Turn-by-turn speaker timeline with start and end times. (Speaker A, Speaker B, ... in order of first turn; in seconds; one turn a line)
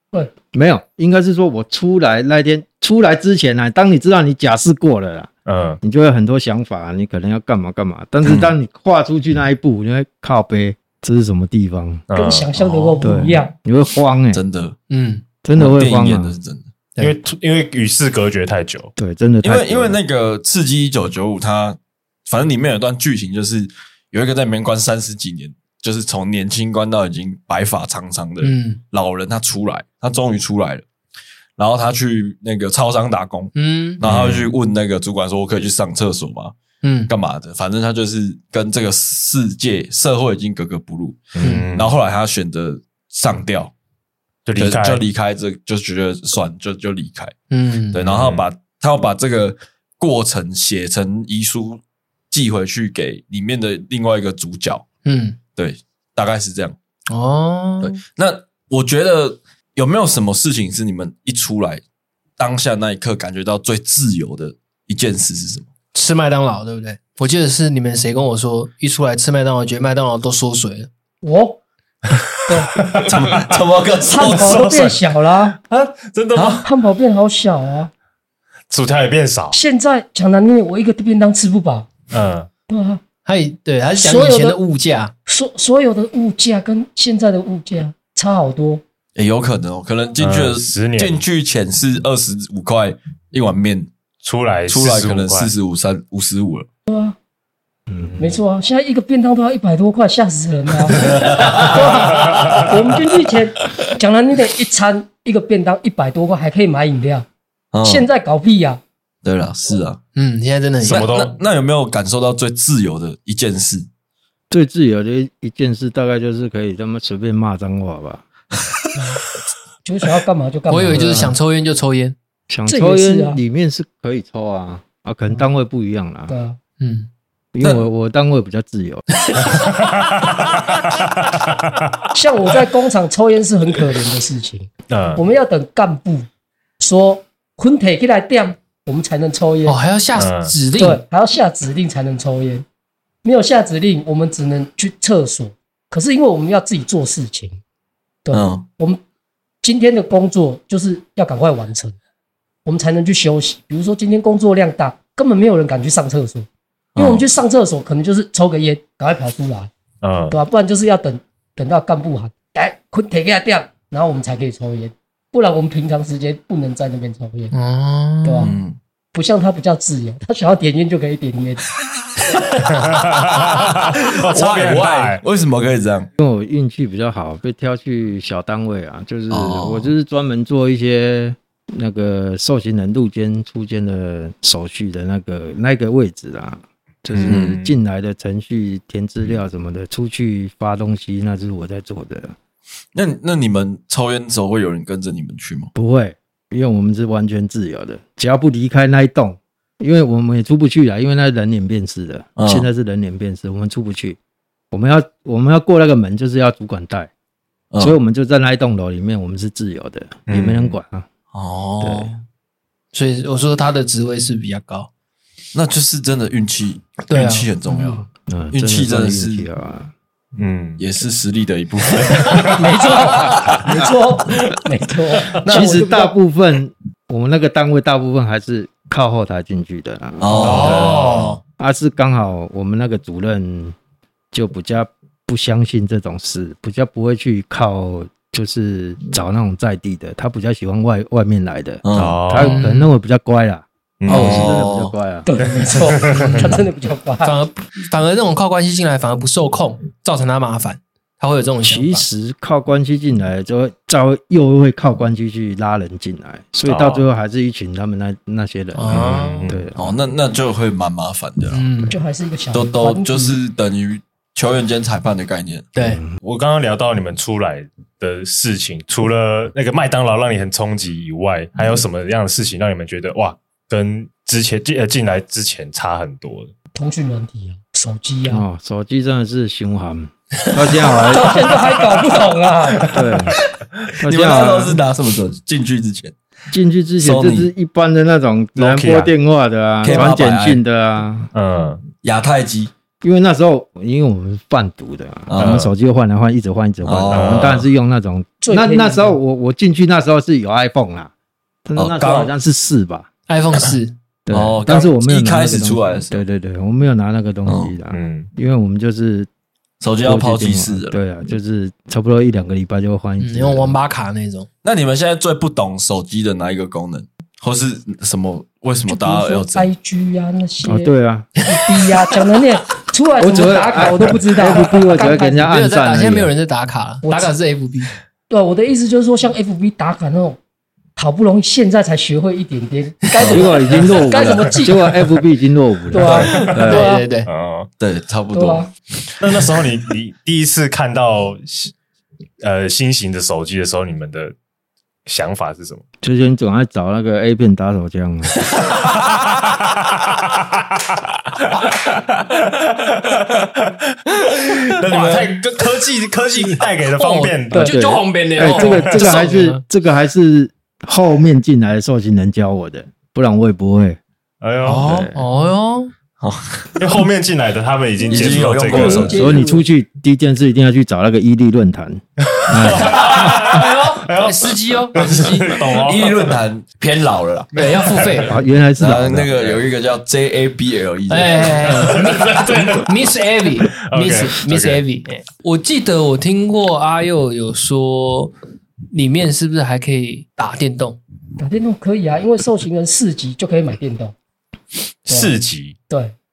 Speaker A: 0.5-5.3
Speaker B: 5.5-5.8
Speaker A: 5.8-12.0
Speaker C: 8.2-8.5
Speaker B: 12.1-12.9
Speaker D: 12.1-13.5
Speaker A: 13.0-14.4
Speaker C: 14.3-14.8
Speaker E: 14.9-15.2
Speaker A: 15.4-16.4
Speaker C: 15.5-16.6
Speaker B: 17.0-18.9
Speaker A: 19.0-20.0
Speaker C: 19.4-30.8
Speaker E: 28.4-28.8
Speaker C: 31.6-36.5
Speaker E: 33.5-34.0
Speaker B: 34.0-34.5
Speaker E: 36.8-37.1
Speaker C: 37.1-43.7
Speaker B: 41.4-41.9
Speaker E: 41.4-41.7
Speaker B: 44.5-45.0
Speaker C: 44.6-47.3
Speaker E: 47.5-48.0
Speaker C: 47.9-54.9
Speaker B: 48.0-48.5
Speaker E: 55.0-55.4
Speaker C: 55.5-56.8
Speaker E: 57.1-58.0
Speaker C: 57.8-61.8
Speaker C: 62.4-65.7
Speaker E: 65.9-70.9
Speaker D: 71.2-71.6
Speaker B: 72.1-75.0
Speaker D: 72.5-72.8
Speaker C: 73.1-74.6
Speaker D: 74.1-75.6
Speaker B: 75.5-76.7
Speaker C: 76.3-76.6
Speaker D: 76.6-77.9
Speaker B: 78.7-79.6
Speaker D: 79.5-81.9
Speaker B: 82.1-82.5
Speaker D: 82.7-83.0
Speaker E: 83.2-85.1
Speaker D: 83.9-84.6
Speaker D: 85.3-88.8
Speaker C: 89.2-93.9
Speaker B: 90.2-91.2
Speaker B: 94.2-95.5
Speaker C: 94.7-96.7
Speaker D: 96.9-97.2
Speaker A: 97.9-98.2
Speaker D: 98.2-107.2
Speaker C: 101.0-101.7
Speaker B: 102.1-102.7
Speaker C: 107.7-108.1
Speaker D: 107.8-108.8
Speaker C: 109.2-110.0
Speaker E: 110.1-111.2
Speaker B: 110.8-111.3
Speaker C: 110.8-113.9
Speaker A: 114.5-118.2
Speaker D: 118.9-119.2
Speaker D: 119.8-121.3
Speaker E: 120.7-122.1
Speaker A: 120.9-121.3
Speaker A: 122.5-126.3
Speaker D: 122.7-123.4
Speaker D: 126.3-126.6
Speaker E: 126.8-127.1
Speaker A: 127.5-129.1
Speaker E: 129.2-130.6
Speaker B: 129.5-132.1
Speaker D: 132.1-136.3
Speaker B: 134.9-135.2
Speaker D: 136.8-139.8
Speaker E: 139.7-141.0
Speaker B: 140.2-140.5
Speaker D: 140.8-142.6
Speaker D: 143.2-147.6
Speaker D: 148.2-149.0
Speaker C: 148.3-148.6
Speaker D: 149.6-151.9
Speaker D: 152.6-159.7
Speaker C: 156.9-157.3
Speaker B: 160.0-160.4
Speaker D: 160.3-167.5
Speaker E: 167.5-168.5
Speaker D: 168.2-168.5
Speaker C: 168.4-168.8
Speaker D: 169.1-171.6
Speaker B: 172.7-175.2
Speaker C: 173.8-176.1
Speaker A: 176.2-192.3
Speaker C: 179.3-179.9
Speaker B: 187.1-187.7
Speaker C: 187.3-187.6
Speaker C: 192.9-195.7
Speaker A: 195.7-204.2
Speaker C: 202.4-202.7
Speaker A: 204.7-207.1
Speaker C: 207.7-208.0
Speaker A: 207.8-211.1
Speaker B: 210.3-210.7
Speaker C: 211.3-212.2
Speaker A: 211.8-212.2
Speaker E: 212.9-214.9
Speaker C: 215.5-219.5
Speaker E: 217.1-217.5
Speaker D: 217.7-218.0
Speaker A: 218.3-219.9
Speaker B: 220.3-220.8
Speaker C: 220.8-223.7
Speaker B: 222.2-222.6
Speaker D: 222.5-226.1
Speaker A: 225.4-231.0
Speaker C: 225.5-225.8
Speaker C: 230.2-231.4
Speaker B: 230.4-231.4
Speaker E: 230.4-231.0
Speaker A: 231.6-233.8
Speaker A: 234.3-245.3
Speaker C: 241.8-242.2
Speaker B: 241.9-242.6
Speaker E: 242.4-242.9
Speaker B: 244.0-244.6
Speaker C: 244.1-244.9
Speaker D: 245.2-247.3
Speaker B: 245.6-246.6
Speaker E: 247.2-252.0
Speaker A: 251.6-260.0
Speaker B: 256.7-257.0
Speaker E: 258.7-259.5
Speaker B: 259.1-259.7
Speaker C: 259.8-261.9
Speaker E: 261.5-262.0
Speaker D: 261.9-263.4
Speaker C: 262.5-265.7
Speaker E: 265.7-266.0
Speaker A: 265.8-266.1
Speaker B: 266.2-276.5
Speaker D: 276.7-278.4
Speaker A: 278.3-281.4
Speaker D: 281.0-283.0
Speaker B: 282.7-283.3
Speaker A: 282.9-283.4
Speaker A: 284.0-284.8
Speaker C: 284.0-286.1
Speaker A: 286.5-291.3
Speaker C: 287.0-287.5
Speaker B: 288.6-289.1
Speaker C: 289.8-290.6
Speaker B: 291.3-291.9
Speaker C: 292.0-292.7
Speaker A: 293.0-301.1
Speaker C: 295.3-295.7
Speaker B: 295.4-295.7
Speaker C: 296.8-297.6
Speaker B: 297.1-297.6
Speaker D: 298.4-299.1
Speaker A: 301.6-303.1
Speaker C: 301.8-302.3
Speaker E: 303.3-303.9
Speaker A: 304.2-309.3
Speaker C: 304.3-306.2
Speaker C: 307.4-307.7
Speaker B: 307.9-308.3
Speaker C: 309.8-311.0
Speaker A: 310.0-313.8
Speaker E: 313.2-314.5
Speaker C: 314.6-319.7
Speaker D: 318.9-325.5
Speaker A: 320.6-321.3
Speaker E: 321.8-322.1
Speaker A: 323.2-326.3
Speaker E: 325.4-327.9
Speaker D: 327.0-327.3
Speaker D: 328.3-330.4
Speaker D: 330.9-335.1
Speaker A: 333.2-336.9
Speaker D: 335.9-337.1
Speaker E: 336.0-337.3
Speaker B: 336.3-337.7
Speaker C: 337.8-338.7
Speaker D: 338.3-338.7
Speaker B: 339.2-341.7
Speaker B: 342.4-344.3
Speaker B: 345.1-345.8
Speaker A: 346.0-348.4
Speaker B: 349.4-358.9
Speaker E: 354.9-355.3
Speaker E: 356.3-359.6
Speaker D: 357.5-357.9
Speaker A: 358.4-364.0
Speaker B: 364.4-365.1
Speaker A: 364.7-365.1
Speaker E: 364.7-365.9
Speaker C: 366.2-367.0
Speaker B: 366.8-369.2
Speaker D: 368.0-369.6
Speaker C: 368.1-369.2
Speaker A: 368.9-373.6
Speaker B: 372.3-376.3
Speaker E: 372.7-375.6
Speaker C: 375.0-377.5
Speaker B: 377.5-378.2
Speaker E: 377.5-378.3
Speaker A: 378.3-379.6
Speaker C: 378.8-381.9
Speaker E: 381.1-388.3
Speaker B: 381.7-382.9
Speaker B: 383.6-384.8
Speaker E: 388.9-391.0
Speaker D: 391.4-394.1
Speaker B: 395.1-395.8
Speaker D: 395.1-396.1